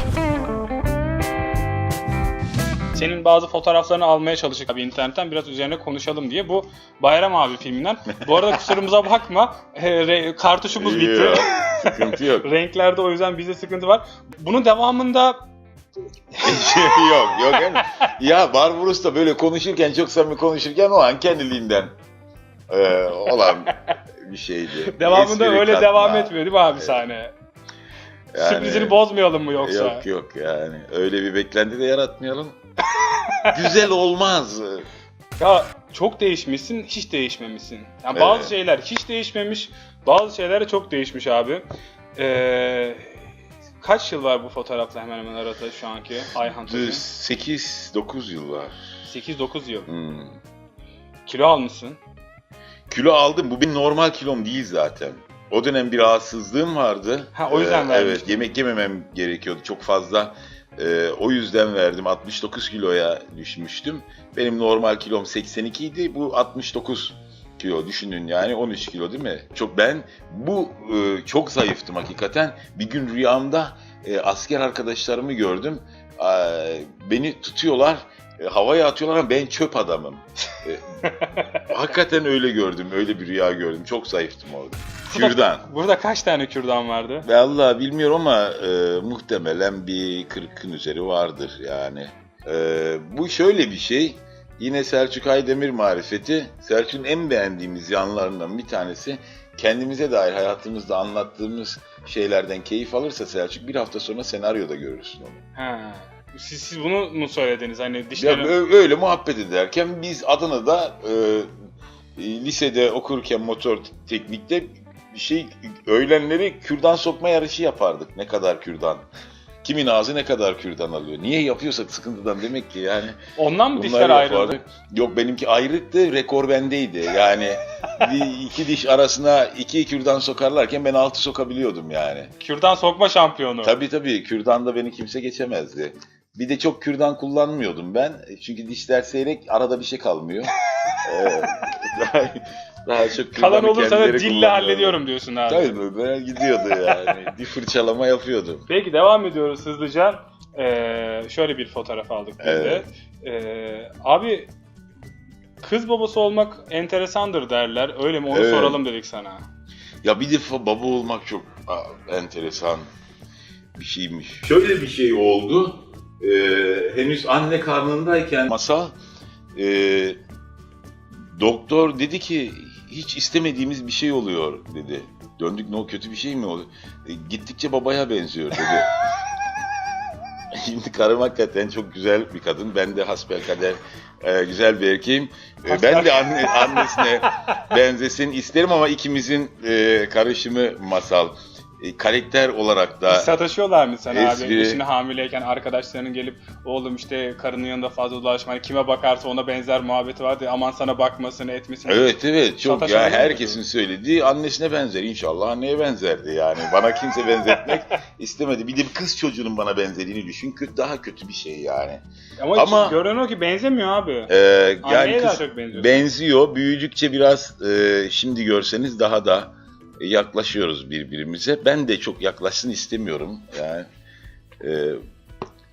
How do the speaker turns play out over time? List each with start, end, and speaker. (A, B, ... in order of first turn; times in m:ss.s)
0:02.9-0:15.4 A
0:08.3-0:08.7 B
0:10.7-0:12.5 B
0:16.4-0:17.0 A
0:16.4-0:21.9 B
0:22.7-0:23.7 B
0:23.4-0:23.7 A
0:24.2-0:27.0 B
0:24.9-0:27.3 A
0:28.3-0:29.0 B
0:28.4-0:30.0 A
0:29.6-0:32.6 B
0:33.0-0:33.6 A
0:33.5-0:34.8 B
0:35.4-0:41.6 A
0:38.1-0:38.5 B
0:42.2-0:43.2 A
0:43.8-0:47.0 A
0:46.6-0:48.8 B
0:49.0-0:49.9 A
0:49.9-0:50.4 B
0:51.2-0:52.0 A
0:52.9-1:21.0 B
0:57.3-0:58.3 A
1:21.0-1:21.6 A
1:21.6-1:25.6 B
1:25.1-1:27.2 A
1:27.2-1:45.4 B
1:45.6-1:48.5 A
1:48.2-1:51.5 B
1:52.2-1:59.0 B
1:59.6-2:03.2 B
2:03.4-2:04.6 A
2:03.7-2:12.3 B
2:12.4-2:13.7 A
2:13.6-2:20.5 B
2:21.0-2:28.6 B
2:23.3-2:25.7 A
2:26.8-2:27.2 A
2:28.7-2:34.5 A
2:32.4-2:32.8 B
2:35.6-2:39.4 A
2:38.3-2:38.8 B
2:40.0-2:42.9 B
2:43.7-2:49.0 B
2:49.5-2:50.2 B
2:51.3-2:58.9 B
3:00.5-3:13.4 B
3:05.7-3:07.6 A
3:13.1-3:22.1 A
3:14.1-3:14.8 B
3:21.9-3:32.0 B
3:22.6-3:23.6 A
3:32.4-3:34.3 A
3:32.5-3:33.0 B
3:34.3-3:43.8 B
3:34.8-3:36.0 A
3:44.6-3:45.0 B